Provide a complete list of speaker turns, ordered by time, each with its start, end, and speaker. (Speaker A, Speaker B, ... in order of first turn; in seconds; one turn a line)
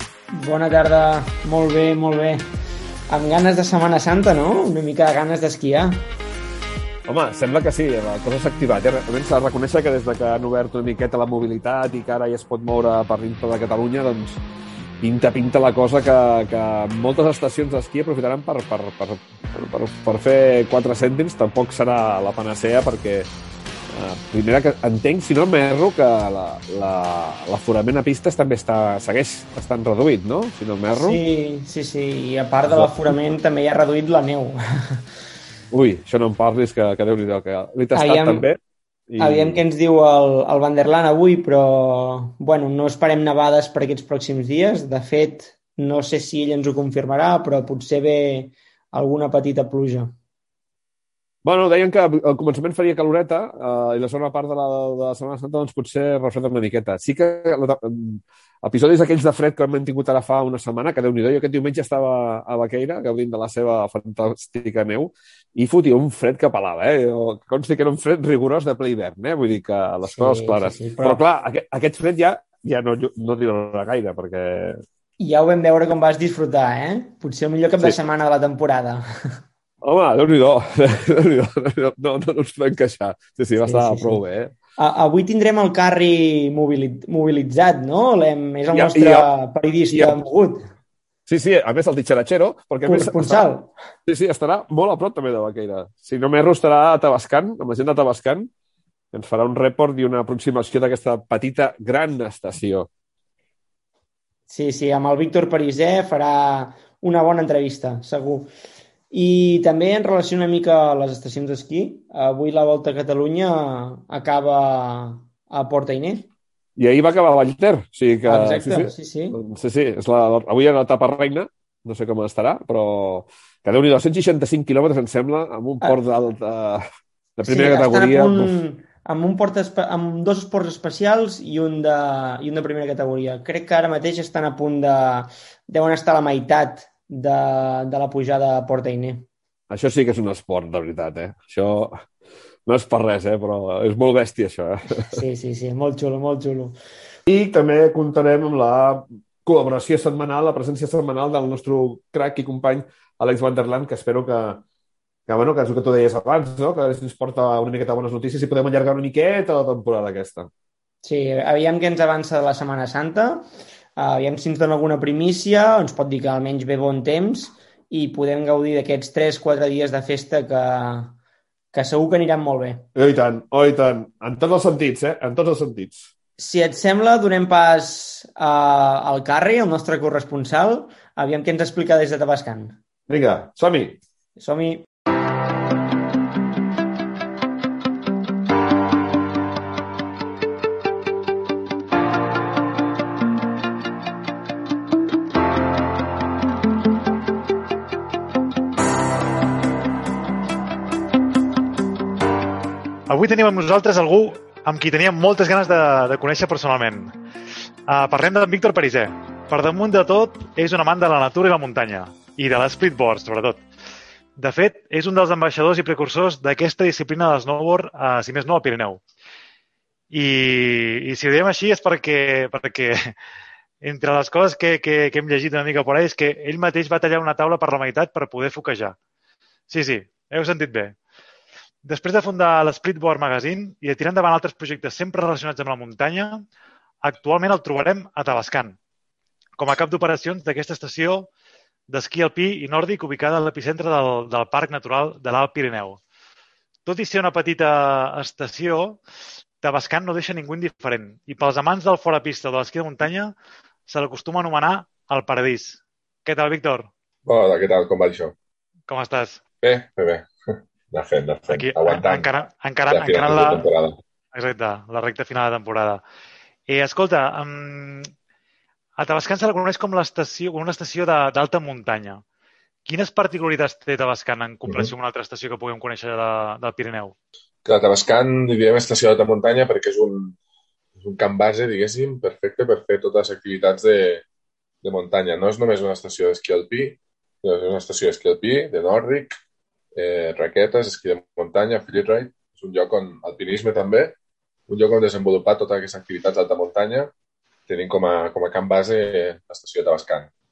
Speaker A: 0.3-2.5
Speaker A: 3.1-6.0
Speaker B: 7.0-14.4
Speaker B: 15.0-23.3
Speaker B: 23.9-31.2
Speaker A: 30.9-35.0
Speaker B: 32.7-33.1
Speaker B: 35.7-39.6
Speaker A: 38.0-38.5
Speaker A: 39.2-50.2
Speaker B: 51.4-74.8
Speaker A: 70.1-71.2
Speaker A: 75.2-79.4
Speaker B: 79.8-84.5
Speaker A: 83.6-84.2
Speaker A: 84.8-90.7
Speaker B: 88.7-89.3
Speaker B: 89.9-90.2
Speaker B: 91.3-93.4
Speaker A: 92.8-93.7
Speaker B: 94.1-98.5
Speaker B: 99.1-102.9
Speaker A: 104.5-108.5
Speaker A: 109.1-116.3
Speaker B: 116.8-126.8
Speaker A: 118.2-119.4
Speaker B: 127.4-128.6
Speaker A: 127.5-139.3
Speaker B: 139.7-142.1
Speaker B: 142.7-145.2
Speaker A: 145.1-146.8
Speaker B: 147.3-154.6
Speaker B: 155.3-160.5
Speaker A: 161.0-171.2
Speaker A: 171.7-172.9
Speaker B: 172.9-176.1
Speaker A: 176.4-182.8
Speaker B: 183.1-184.0
Speaker A: 184.4-184.9
Speaker C: 203.1-207.1
Speaker C: 207.9-213.6
Speaker C: 214.4-219.0
Speaker C: 220.1-223.1
Speaker C: 223.8-229.0
Speaker C: 229.7-231.0
Speaker C: 231.8-236.4
Speaker C: 237.0-238.8
Speaker C: 239.6-241.3
Speaker C: 241.9-246.0
Speaker C: 246.8-249.0
Speaker C: 249.6-253.3
Speaker C: 253.9-256.9
Speaker D: 257.2-258.3
Speaker C: 258.9-259.4
Speaker D: 259.6-260.3
Speaker D: 260.9-262.3
Speaker C: 261.5-263.6
Speaker D: 262.9-264.0
Speaker C: 264.3-266.0
Speaker C: 266.7-268.1
Speaker C: 269.0-272.2
Speaker C: 272.8-277.1
Speaker D: 277.6-280.4
Speaker D: 281.0-284.2
Speaker D: 284.8-289.4
Speaker D: 289.9-294.1
Speaker D: 294.7-297.1
Speaker D: 297.7-300.3